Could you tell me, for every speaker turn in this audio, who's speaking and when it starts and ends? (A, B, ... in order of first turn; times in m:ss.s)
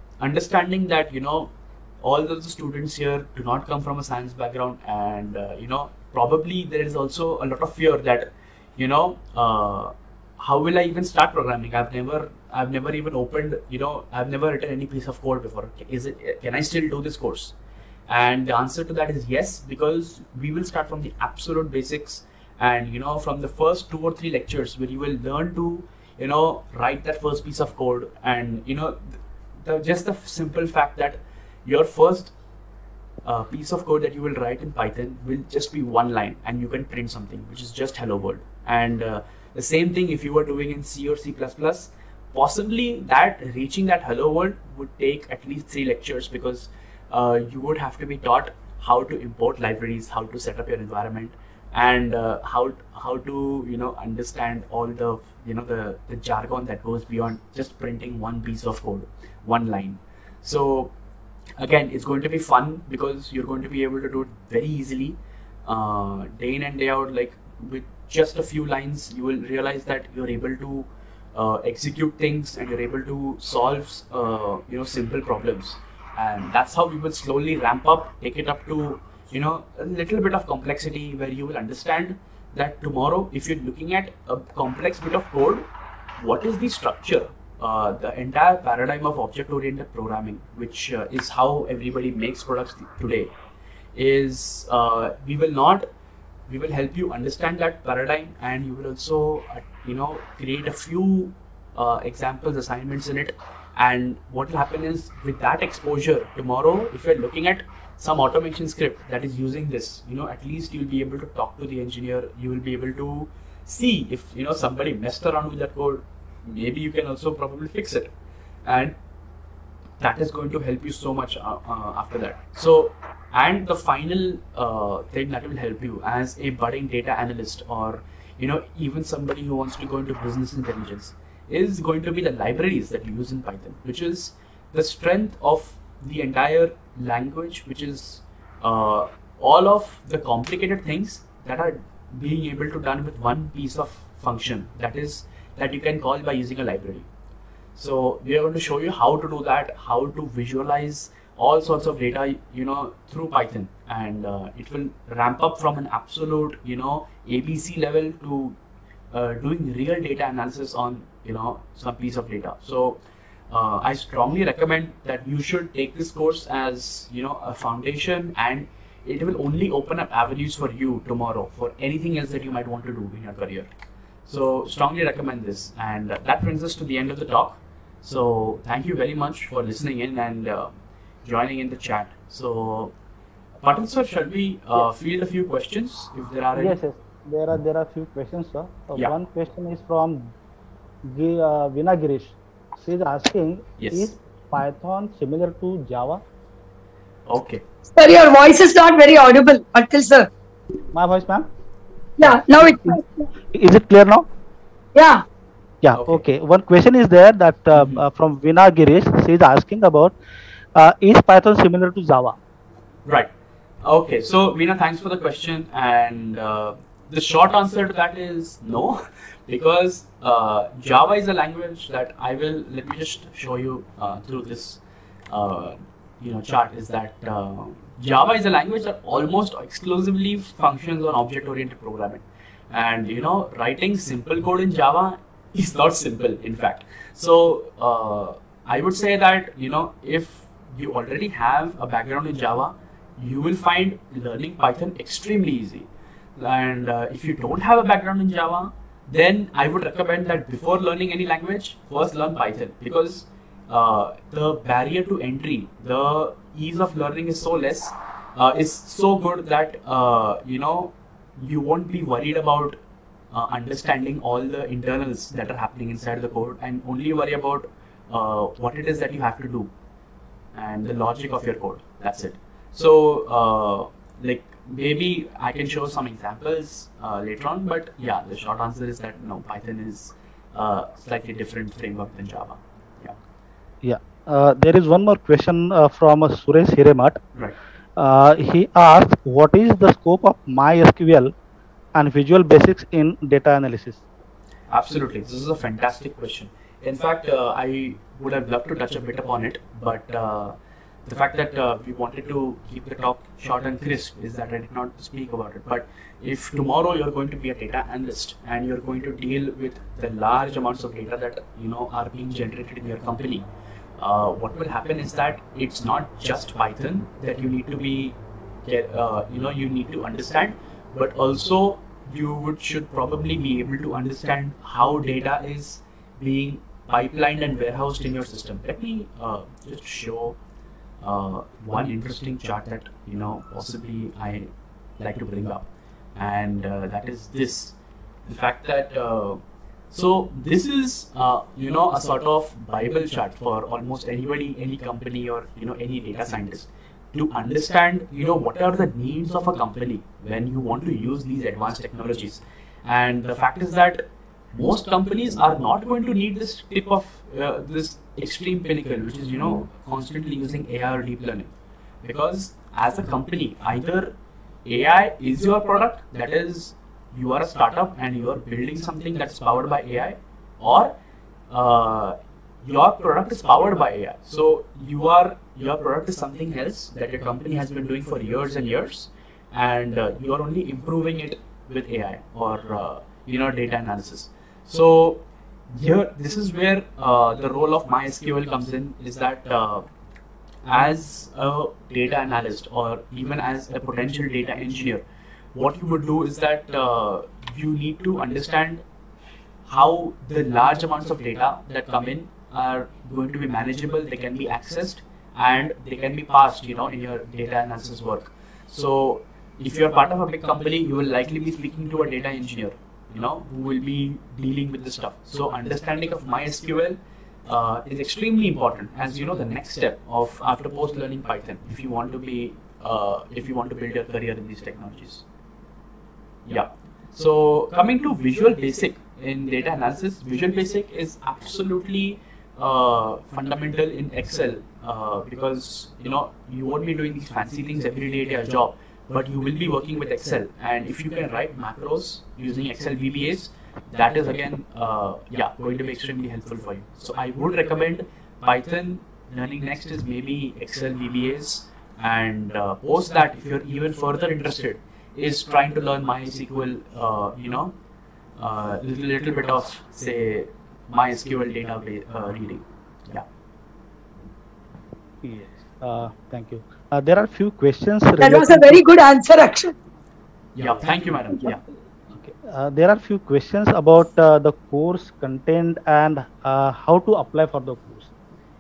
0:00.2-0:01.5 A
0:02.0-0:17.5 A
0:18.1-0:32.3 A
0:33.2-1:00.9 A
1:01.6-1:25.6 A
1:26.2-1:33.3 A
1:33.9-1:35.8 A
1:36.5-1:58.1 A
1:58.6-1:59.0 A
2:00.0-2:27.1 A
2:27.8-2:38.6 A
2:39.1-2:43.0 A
2:43.5-2:53.7 A
2:54.2-3:00.7 A
3:01.2-3:02.9 A
3:03.6-3:06.8 A
3:06.5-3:10.3 B
3:11.1-3:16.2 B
3:13.8-3:14.1 A
3:17.3-3:17.6 A
3:17.9-3:20.3 C
3:20.9-3:21.5 B
3:22.2-3:23.3 C
3:22.2-3:23.0 B
3:23.5-3:24.2 B
3:24.9-3:25.2 C
3:25.8-3:30.2 B
3:25.9-3:26.2 A
3:27.8-3:28.0 A
3:30.7-3:32.4 B
3:33.8-3:44.8 A
3:45.3-4:22.8 A
4:23.3-4:29.7 A
4:30.5-4:43.1 A
4:43.8-4:47.2 B
4:48.0-4:51.3 B
4:51.9-4:54.0 B
4:54.7-5:00.5 A
5:01.0-5:30.4 A
5:31.0-5:37.7 A
5:38.2-5:39.4 A
5:39.9-5:54.0 A
5:54.5-6:01.5 A
6:02.0-6:04.1 A
6:04.6-6:10.9 A
6:11.5-6:29.8 A
6:30.6-6:35.0 A
6:35.5-6:38.8 A
6:39.6-7:05.2 A
7:06.4-7:37.7 A
7:38.4-7:43.2 A
7:45.2-7:48.8 B
7:48.2-7:49.7 C
7:50.6-7:51.6 A
7:52.1-7:58.1 B